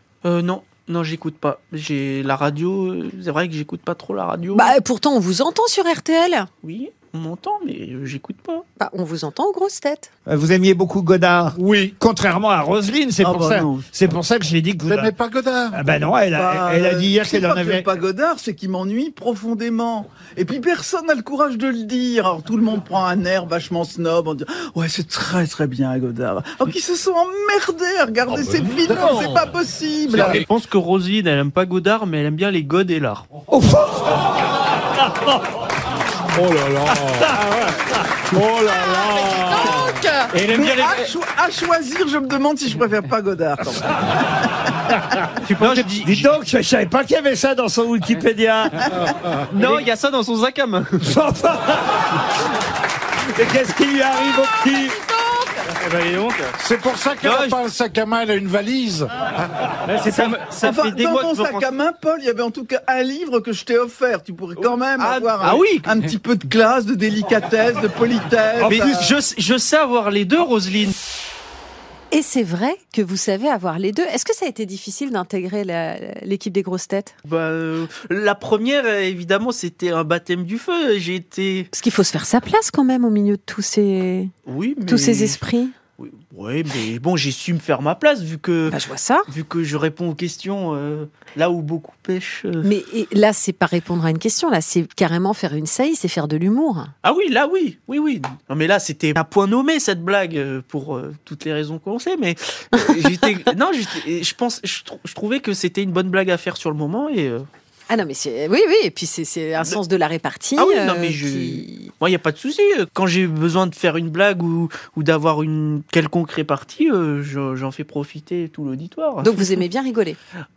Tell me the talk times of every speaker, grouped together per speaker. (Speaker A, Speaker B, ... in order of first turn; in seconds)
Speaker A: 0.2-4.7, 6.6-8.6, 30.1-33.2, 40.3-41.1, 45.4-46.3, 49.5-51.1, 55.8-56.5, 57.2-57.6, 59.9-61.7, 64.6-66.0, 68.6-71.0, 77.2-81.7, 84.5-85.4, 86.0-92.7, 97.0-107.5, 110.6-119.6
Speaker B: 4.5-6.5, 8.8-10.1, 38.5-40.3, 55.1-55.6, 72.1-77.1, 81.7-84.3, 84.9-85.7, 88.7-89.3, 92.6-96.9, 107.9-111.9, 119.2-120.2
Speaker C: 10.3-15.1, 15.7-17.9, 33.5-34.2, 35.0-35.4, 37.1-37.5, 45.1-49.0, 51.0-52.0, 53.3-55.0, 68.6-68.9
Speaker D: 11.6-11.9, 14.8-15.8, 28.9-29.2, 30.1-30.4, 36.5-37.1, 56.5-59.3
Speaker E: 13.2-13.8, 16.3-30.4, 40.5-44.3, 60.6-69.1